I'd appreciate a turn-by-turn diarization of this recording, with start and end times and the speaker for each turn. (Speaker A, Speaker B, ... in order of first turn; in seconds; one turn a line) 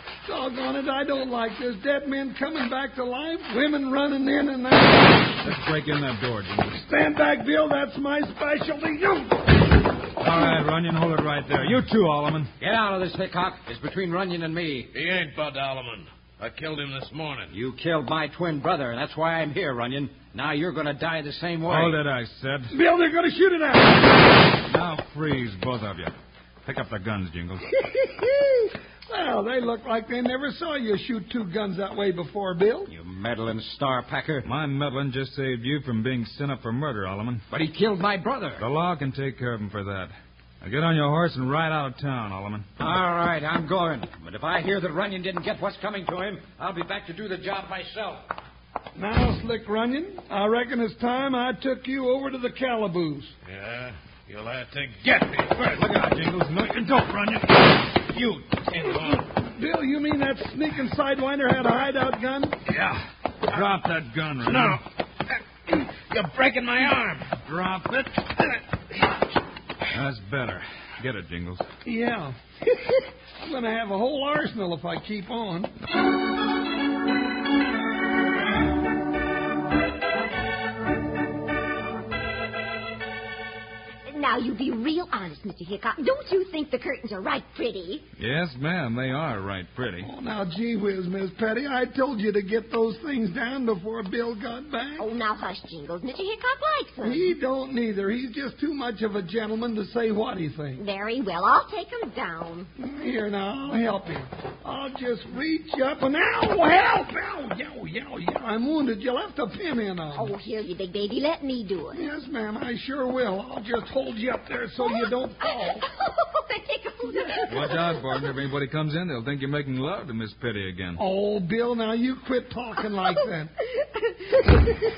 Speaker A: 0.2-5.3
Speaker B: 5.4-6.7
Speaker A: 6.7-9.5
Speaker B: 10.2-12.5
Speaker C: 12.6-14.9
Speaker D: 14.9-17.6
Speaker C: 17.5-22.0
Speaker B: 21.7-22.7
Speaker A: 22.7-24.2
Speaker B: 24.7-26.1
Speaker B: 26.6-27.7
Speaker A: 28.0-32.9
Speaker C: 32.9-34.5
Speaker B: 34.4-37.4
Speaker C: 37.5-38.6
Speaker B: 38.6-42.7
Speaker C: 42.8-48.3
Speaker A: 49.0-53.3
Speaker D: 53.5-55.8
Speaker B: 55.8-58.4
Speaker D: 58.6-59.2
Speaker A: 59.4-62.6
Speaker B: 62.8-64.8
Speaker D: 64.4-64.8
Speaker D: 65.7-67.4
Speaker B: 67.5-68.1
Speaker B: 69.9-71.7
Speaker A: 71.8-75.7
Speaker E: 84.1-88.0
Speaker B: 88.2-90.1
Speaker A: 90.0-95.1
Speaker E: 95.0-97.3
Speaker A: 97.0-100.8
Speaker E: 100.8-102.7
Speaker A: 102.8-110.3
Speaker E: 110.2-112.0
Speaker A: 111.9-115.9
Speaker E: 114.8-118.1
Speaker B: 117.5-121.0
Speaker A: 121.0-123.5
Speaker E: 123.8-124.8